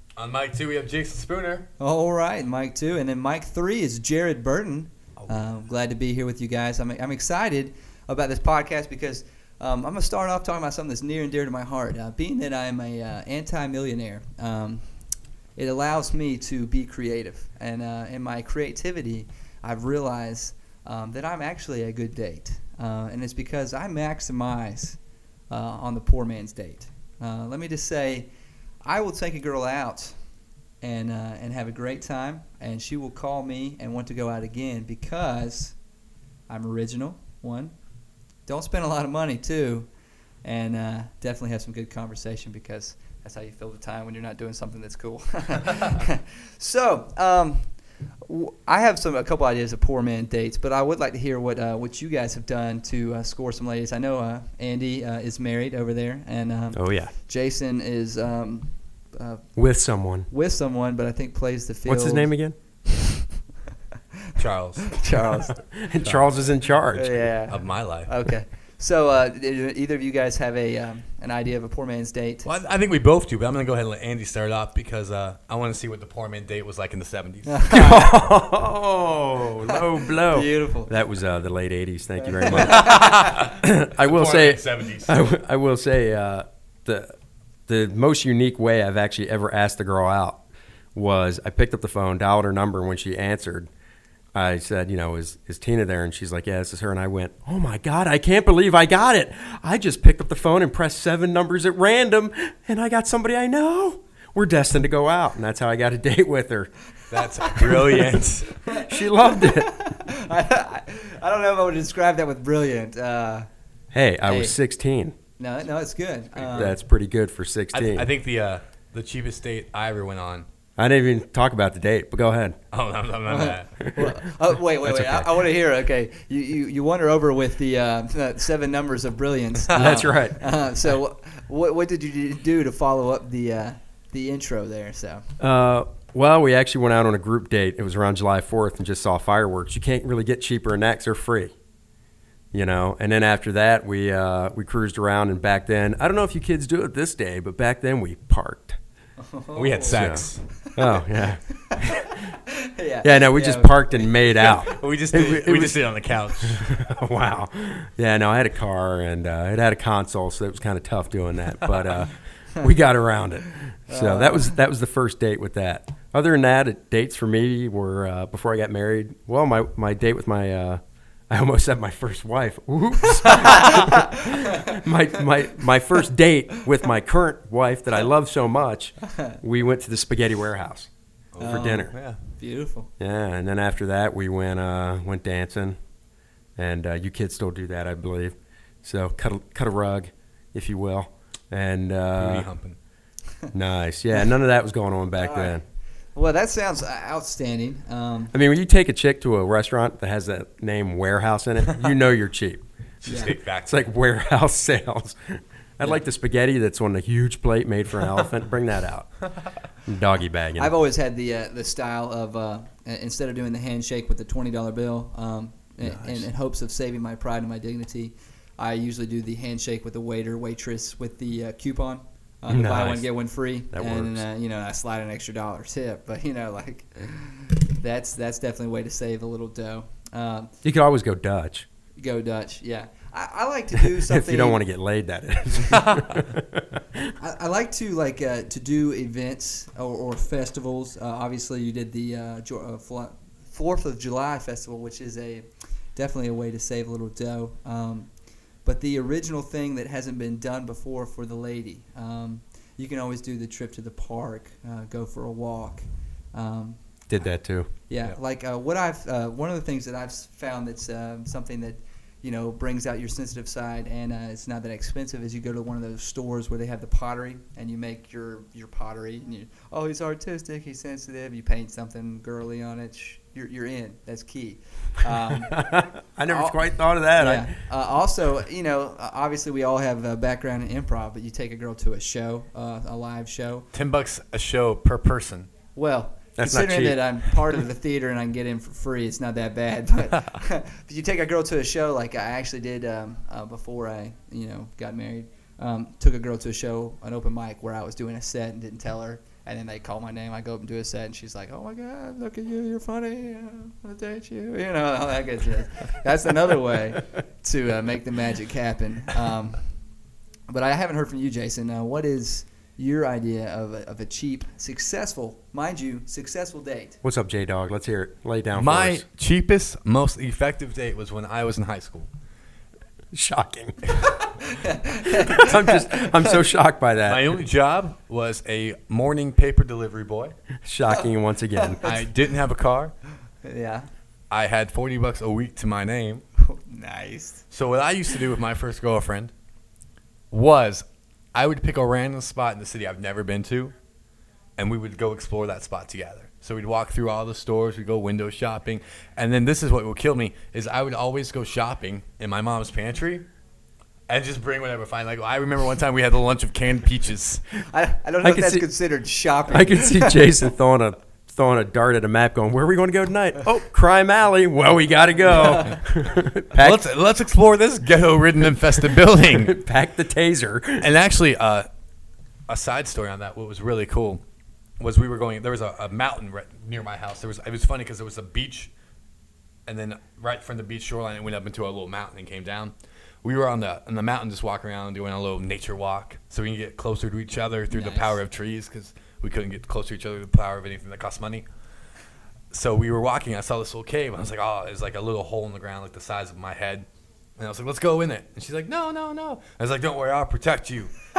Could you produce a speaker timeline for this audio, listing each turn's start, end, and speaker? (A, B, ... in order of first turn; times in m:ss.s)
0:00.2-0:01.7 A
0:01.8-0:14.9 B
0:05.2-0:05.5 A
0:15.6-0:25.0 B
0:25.5-0:28.3 B
0:28.8-0:30.2 B
0:30.8-0:35.8 B
0:36.5-0:37.7 B
0:38.5-0:39.9 B
0:40.4-0:59.5 B
0:56.7-0:57.1 C
0:59.6-1:00.3 C
1:00.3-1:02.3 B
1:01.9-1:02.6 C
1:04.4-1:05.1 A
1:04.8-1:05.6 B
1:05.6-1:07.3 C
1:06.0-1:06.3 A
1:07.0-1:12.5 B
1:07.5-1:08.1 A
1:12.4-1:17.6 A
1:17.5-1:18.2 B
1:17.7-1:27.1 C
1:19.7-1:20.9 B
1:22.2-1:23.3 B
1:22.5-1:25.1 A
1:27.7-1:30.4 C
1:31.0-1:33.7 C
1:34.4-1:46.7 C
1:47.1-1:48.5 A
1:47.2-1:53.5 B
1:48.7-1:49.7 C
1:53.9-1:55.2 C
1:54.2-1:54.6 B
1:55.4-1:56.8 B
1:56.5-1:58.1 C
1:57.7-2:00.4 A
2:00.8-2:02.6 C
2:02.7-2:03.7 A
2:03.3-2:15.2 B
2:03.8-2:04.2 C
2:04.8-2:05.3 C
2:09.7-2:10.4 C
2:15.4-2:21.5 C
2:22.5-2:28.8 C
2:29.2-2:31.0 B
2:29.6-2:30.5 A
2:29.9-2:32.0 C
2:31.7-2:34.1 B
2:33.0-2:35.8 C
2:34.1-2:36.7 A
2:36.5-3:00.9 C
2:43.9-2:44.5 B
2:53.4-2:54.7 B
3:01.4-3:02.2 A
3:01.4-3:02.0 C
3:01.4-3:02.9 B
3:03.0-3:05.8 C
3:06.6-3:12.5 C
3:12.2-3:12.8 A
3:13.5-3:15.6 C
3:15.2-3:15.6 B
3:16.2-3:18.3 B
3:18.3-3:22.6 C
3:23.0-3:23.8 A
3:23.1-3:23.3 B
3:23.6-3:29.2 C
3:29.9-3:30.7 C
3:30.6-3:50.5 B
3:35.9-3:36.2 C
3:42.5-3:43.1 C
3:43.7-3:44.2 C
3:50.6-3:51.6 C
3:52.0-3:54.6 B
3:53.8-3:57.1 C
3:55.7-3:56.0 A
3:57.2-4:08.1 B
4:08.6-4:17.2 B
4:17.1-4:17.7 C
4:17.9-4:35.6 B
4:35.5-4:37.5 C
4:36.3-4:36.6 B
4:37.2-4:43.7 B
4:43.7-4:45.5 A
4:45.8-5:09.6 B
4:46.4-4:47.3 C
5:10.5-5:17.0 B
5:17.0-5:19.0 C
5:18.5-5:22.1 A
5:23.1-5:24.0 C
5:24.0-5:26.3 B
5:25.0-5:27.4 C
5:27.1-5:30.3 A
5:30.6-5:31.8 C
5:30.9-5:32.0 B
5:31.8-5:32.9 A
5:33.4-5:33.9 B
5:34.3-5:36.2 A
5:36.4-5:37.4 B
5:37.5-5:39.3 A
5:40.3-5:43.7 A
5:44.6-5:53.3 A
5:54.1-5:57.4 A
5:57.7-6:00.3 B
5:58.2-5:58.7 C
5:59.5-6:06.8 C
6:05.3-6:05.8 B
6:06.6-6:09.5 A
6:09.3-6:10.9 C
6:10.8-6:11.7 A
6:12.5-6:14.2 A
6:14.8-6:18.7 A
6:19.7-6:31.4 A
6:27.7-6:28.2 B
6:32.5-6:36.9 A
6:37.4-6:40.9 A